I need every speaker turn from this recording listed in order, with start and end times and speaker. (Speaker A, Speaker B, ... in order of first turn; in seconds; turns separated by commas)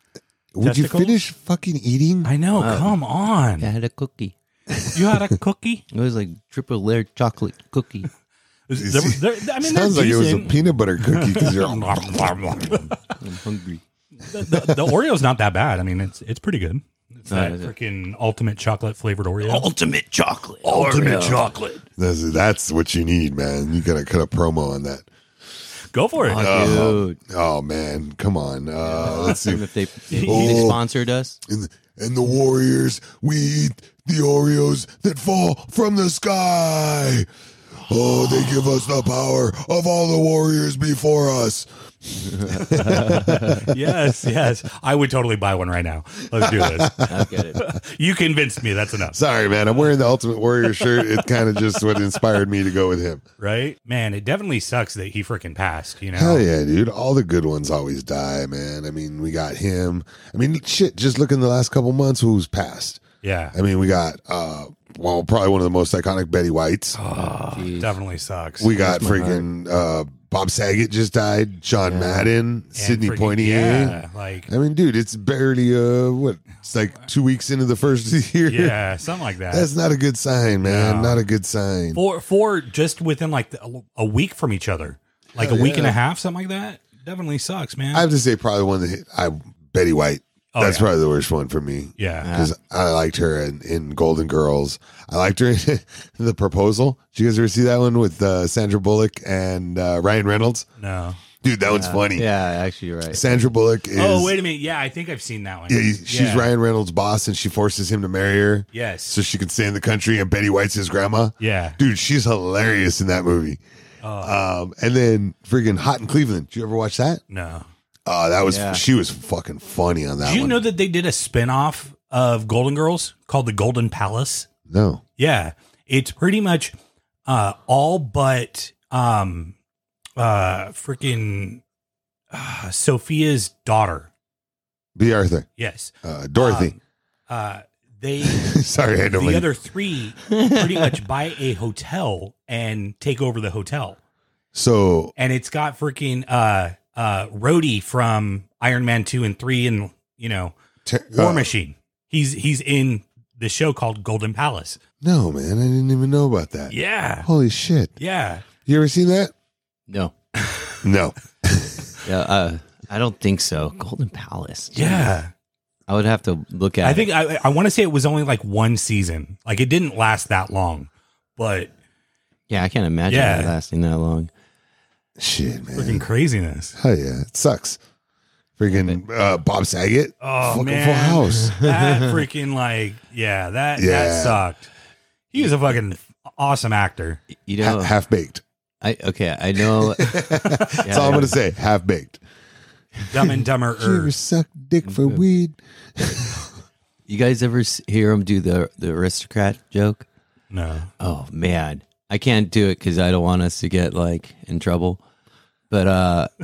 Speaker A: 0.5-2.3, Speaker B: 0.6-1.2, Speaker B: 2.2-3.7, Speaker C: 2.6-3.0, Speaker C: 3.6-4.3, Speaker A: 4.9-5.2, Speaker B: 4.9-5.8, Speaker C: 5.9-8.1, Speaker B: 8.7-13.1, Speaker A: 8.8-12.9, Speaker C: 13.2-13.8, Speaker B: 14.2-19.7, Speaker A: 14.4-14.9, Speaker C: 17.3-17.7, Speaker C: 19.4-21.5, Speaker B: 20.6-21.8, Speaker A: 22.0-25.1, Speaker B: 25.9-26.8, Speaker C: 26.2-27.2, Speaker A: 26.4-29.6, Speaker C: 28.8-31.4, Speaker B: 30.1-30.8, Speaker A: 30.2-30.8, Speaker A: 31.5-37.3, Speaker A: 37.8-43.7, Speaker C: 42.5-43.7, Speaker B: 43.6-49.2, Speaker A: 46.4-47.1, Speaker C: 47.1-47.6, Speaker A: 49.1-53.2, Speaker B: 50.8-51.0, Speaker B: 53.4-56.4, Speaker A: 56.1-63.0, Speaker B: 63.2-63.5, Speaker A: 63.5-67.0, Speaker B: 67.0-68.8, Speaker C: 67.1-68.0, Speaker A: 68.6-78.8, Speaker C: 68.7-69.5, Speaker C: 71.8-72.3, Speaker B: 72.8-74.5, Speaker B: 78.5-79.7, Speaker A: 79.5-82.0, Speaker B: 80.6-81.3, Speaker B: 81.9-88.1, Speaker A: 85.4-86.0, Speaker A: 87.9-100.7, Speaker B: 90.5-90.9, Speaker B: 92.0-92.3, Speaker C: 92.2-92.5, Speaker B: 100.8-101.2, Speaker A: 101.4-102.3, Speaker C: 101.7-103.5, Speaker A: 103.1-104.4, Speaker B: 103.9-106.5, Speaker A: 105.7-113.6, Speaker B: 108.7-109.2, Speaker B: 111.4-111.8, Speaker B: 114.0-114.4, Speaker A: 114.2-117.2, Speaker B: 117.3-117.7, Speaker A: 118.1-120.6, Speaker C: 118.5-118.8, Speaker B: 120.2-124.5, Speaker A: 124.7-125.0, Speaker B: 125.2-126.7, Speaker B: 127.3-129.6, Speaker B: 130.2-131.6, Speaker B: 132.3-134.1, Speaker A: 135.0-135.5, Speaker B: 135.6-136.8, Speaker A: 136.0-136.8, Speaker B: 137.3-144.0, Speaker A: 138.3-139.5, Speaker C: 140.6-141.0, Speaker A: 144.5-145.1, Speaker B: 145.2-150.6, Speaker A: 150.8-151.5, Speaker B: 151.1-154.8, Speaker A: 155.0-157.9, Speaker B: 156.7-157.3, Speaker B: 158.0-158.5, Speaker A: 158.6-159.3, Speaker A: 160.8-162.0, Speaker C: 162.1-165.2, Speaker B: 164.7-165.3, Speaker C: 165.9-167.1, Speaker B: 166.8-171.7, Speaker C: 172.5-174.3, Speaker B: 173.1-173.6, Speaker A: 175.2-176.1, Speaker B: 175.8-176.8, Speaker A: 176.8-177.8, Speaker A: 178.6-181.6, Speaker C: 178.7-179.0, Speaker B: 180.2-184.7, Speaker C: 181.7-182.1, Speaker A: 183.8-184.4, Speaker B: 185.3-187.2, Speaker C: 187.4-188.0, Speaker A: 187.6-188.4, Speaker C: 188.8-191.4, Speaker A: 190.0-192.2, Speaker B: 190.3-190.7, Speaker B: 193.1-194.1, Speaker A: 193.8-196.5, Speaker C: 194.8-195.2, Speaker C: 197.1-200.1, Speaker B: 200.5-200.9, Speaker C: 201.0-205.0, Speaker C: 205.7-206.3